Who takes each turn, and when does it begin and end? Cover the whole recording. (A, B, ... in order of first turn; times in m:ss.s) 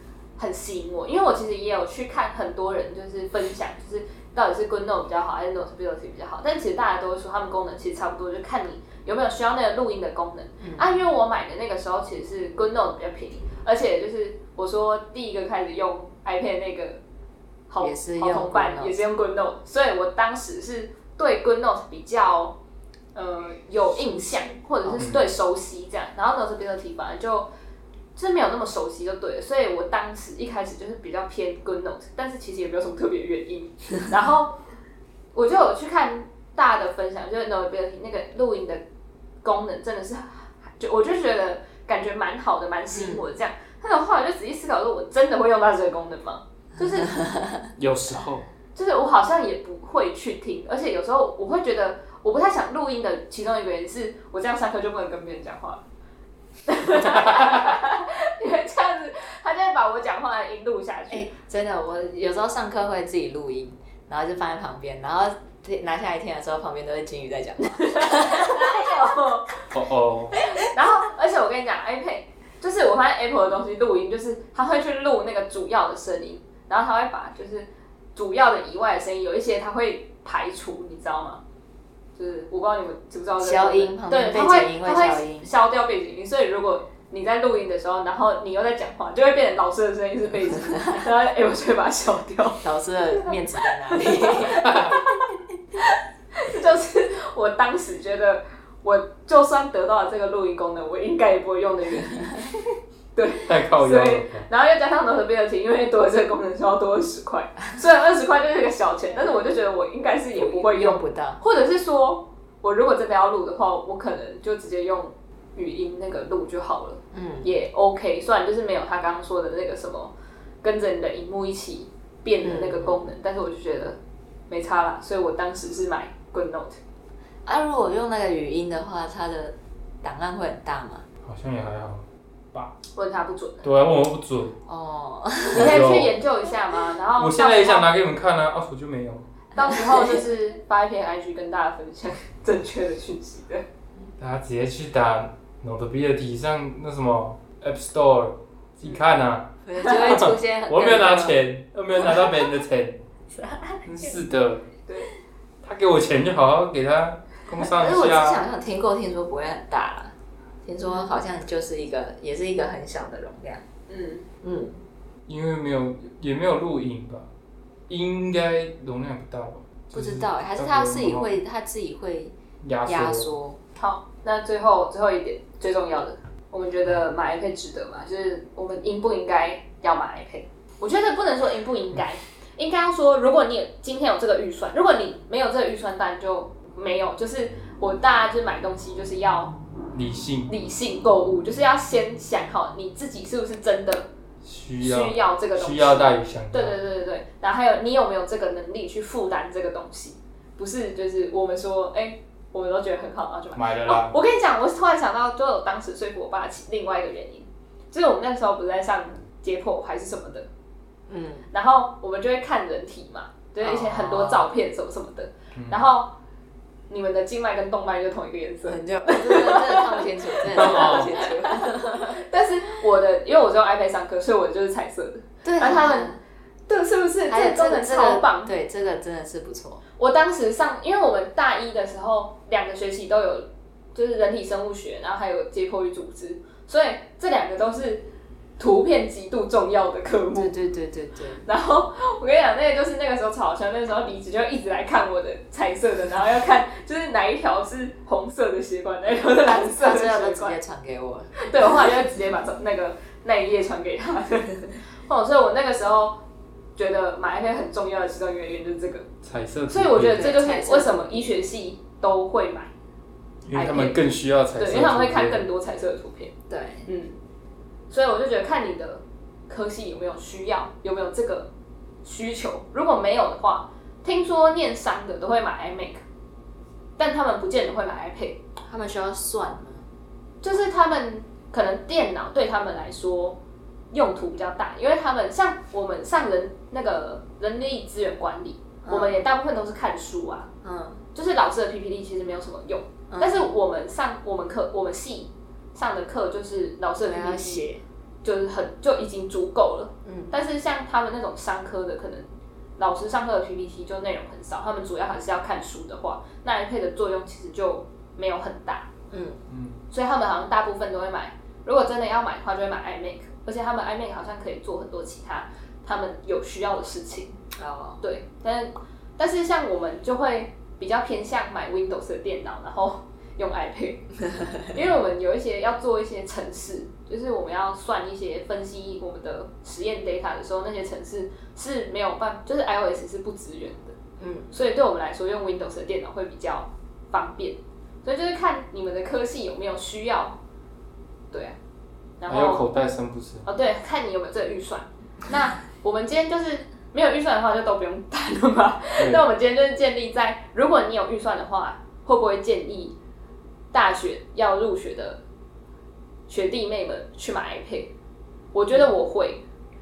0:00.4-0:17.0 A
0:10.6-0:10.9 B
0:17.7-0:22.6 A
0:17.8-0:18.9 B
0:23.1-0:27.5 A
0:25.0-0:25.3 C
0:28.2-0:34.6 A
0:35.3-0:38.8 A
0:39.4-0:47.2 A
0:42.9-0:43.2 B
0:47.0-0:47.7 B
0:47.8-0:48.4 C
0:48.7-0:55.8 A
0:56.7-1:01.3 A
0:57.0-0:57.6 C
1:01.1-1:08.8 B
1:07.8-1:09.7 A
1:09.7-1:10.4 C
1:10.6-1:21.4 A
1:22.2-1:32.6 A
1:23.4-1:25.5 B
1:32.6-1:35.0 B
1:33.2-1:35.0 A
1:34.6-1:35.0 C
1:36.3-1:42.5 A
1:43.2-2:04.0 A
1:43.4-1:44.5 C
1:50.3-1:51.4 B
1:57.1-1:57.5 B
2:02.4-2:03.0 B
2:04.5-2:06.8 A
2:07.4-2:11.0 B
2:11.2-2:12.7 C
2:12.9-2:13.7 A
2:13.6-2:14.6 C
2:14.7-2:15.8 B
2:15.5-2:17.9 A
2:15.5-2:16.2 C
2:17.2-2:19.3 C
2:19.6-2:23.6 A
2:24.2-2:33.0 C
2:29.6-2:31.4 B
2:32.0-2:32.4 B
2:33.3-2:34.2 B
2:33.8-2:34.7 C
2:34.9-2:35.1 A
2:35.6-2:38.4 C
2:37.6-2:43.6 B
2:40.8-2:41.1 A
2:43.9-2:44.3 A
2:44.4-2:44.8 B
2:45.3-2:47.3 C
2:47.9-2:51.3 C
2:49.9-2:52.3 B
2:52.6-2:53.3 C
2:52.8-2:53.6 B
2:53.8-3:09.6 A
3:09.9-3:10.5 C
3:10.5-3:14.1 A
3:14.4-3:16.8 C
3:14.8-3:30.5 A
3:23.5-3:24.2 C
3:31.1-3:31.5 B
3:31.5-3:36.2 A
3:33.6-3:34.5 B
3:35.5-3:35.9 C
3:36.9-3:46.1 A
3:38.7-3:42.2 B
3:40.5-3:41.2 C
3:45.4-3:46.2 B
3:46.7-3:48.5 A
3:47.3-3:49.8 B
3:50.0-3:58.1 A
3:58.6-4:00.5 A
4:00.3-4:01.4 B
4:01.4-4:10.6 A
4:09.5-4:11.5 B
4:11.4-4:16.2 A
4:16.8-4:19.1 A
4:19.2-4:20.2 C
4:19.7-4:22.7 A
4:20.1-4:21.2 B
4:23.4-4:25.4 C
4:23.5-4:24.0 A
4:24.6-4:26.3 A
4:26.5-4:26.9 B
4:26.8-4:27.2 A
4:27.9-4:31.5 A
4:32.0-4:36.0 A
4:37.0-4:38.4 A
4:38.6-4:39.9 B
4:40.4-4:43.4 A
4:43.9-4:50.5 A
4:48.8-4:49.2 B
4:50.6-4:51.0 B
4:51.1-4:57.7 A
4:53.1-4:53.5 B
4:57.0-4:57.8 B
4:58.2-5:08.9 A
5:00.0-5:00.3 B
5:09.1-5:09.4 B
5:09.5-5:09.8 C
5:09.9-5:17.4 A
5:17.6-5:18.0 B
5:18.0-5:33.9 A
5:34.2-5:34.5 B
5:34.5-5:40.4 A
5:41.3-5:41.6 A
5:42.2-5:42.6 A
5:42.3-5:43.5 C
5:43.4-5:53.0 A
5:53.7-5:55.2 A
5:56.3-5:57.9 A
5:58.5-5:59.4 A